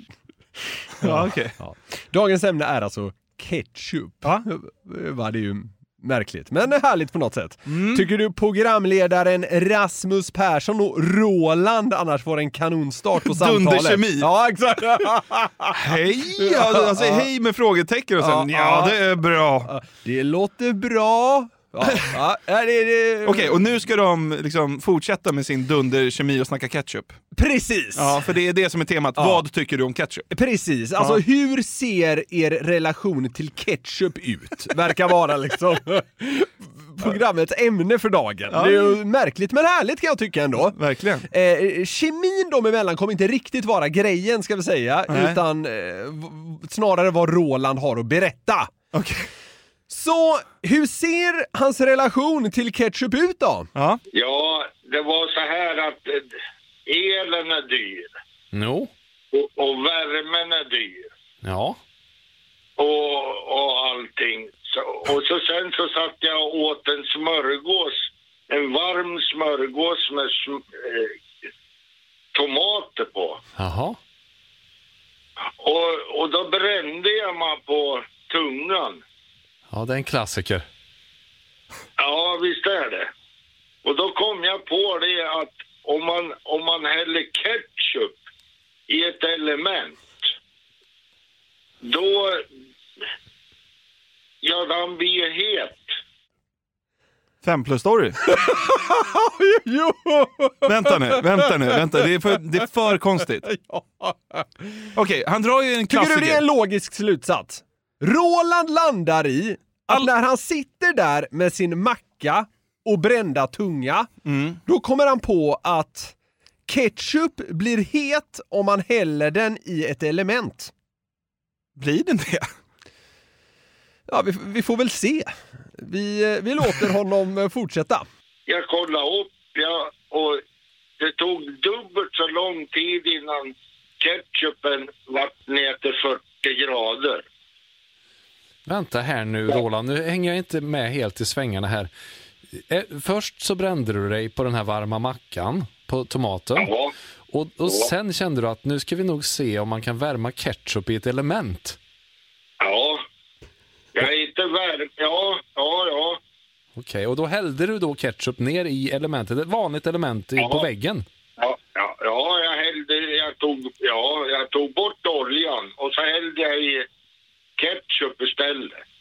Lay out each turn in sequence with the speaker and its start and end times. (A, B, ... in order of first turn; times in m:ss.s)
0:01.0-0:01.6 A
0:01.6-0:17.3 B
0:07.7-0:08.1 A
0:13.2-0:14.3 A
0:15.7-0:19.7 A
0:18.2-0:23.6 B
0:21.8-0:22.2 A
0:23.2-0:27.2 A
0:27.3-0:28.2 B
0:27.9-0:30.3 A
0:29.2-0:29.4 B
0:30.3-0:48.7 B
0:38.5-0:39.0 A
0:40.7-0:41.3 A
0:45.1-0:45.4 A
0:48.9-0:49.3 A
0:49.9-0:53.7 B
0:53.8-0:54.0 A
0:54.1-0:56.3 C
0:56.8-0:58.1 C
0:58.5-0:58.9 D
0:59.3-1:01.1 C
1:01.4-1:01.8 D
1:02.8-1:11.1 C
1:12.3-1:13.4 C
1:13.6-1:14.0 D
1:15.6-1:19.0 C
1:19.7-1:20.6 D
1:22.0-1:23.1 C
1:23.8-1:28.2 C
1:28.9-1:30.3 C
1:31.8-1:32.5 C
1:34.4-1:35.9 C
1:37.4-1:38.2 A
1:38.2-1:42.6 B
1:40.6-1:43.5 A
1:43.4-1:44.9 B
1:44.9-1:46.4 A
1:45.9-1:54.1 B
1:54.2-1:54.6 A
1:54.6-1:56.1 B
1:56.7-2:00.7 B
2:01.8-2:02.5 A
2:04.1-2:08.0 B
2:08.5-2:10.4 C
2:11.0-2:17.2 C
2:18.7-2:21.9 D
2:22.7-2:26.7 D
2:26.6-2:26.9 C
2:27.3-2:31.8 D
2:27.6-2:27.9 C
2:32.6-2:33.0 C
2:33.9-2:36.2 C
2:36.8-2:41.0 D
2:40.4-2:40.7 C
2:41.4-2:46.9 C
2:47.6-2:48.8 C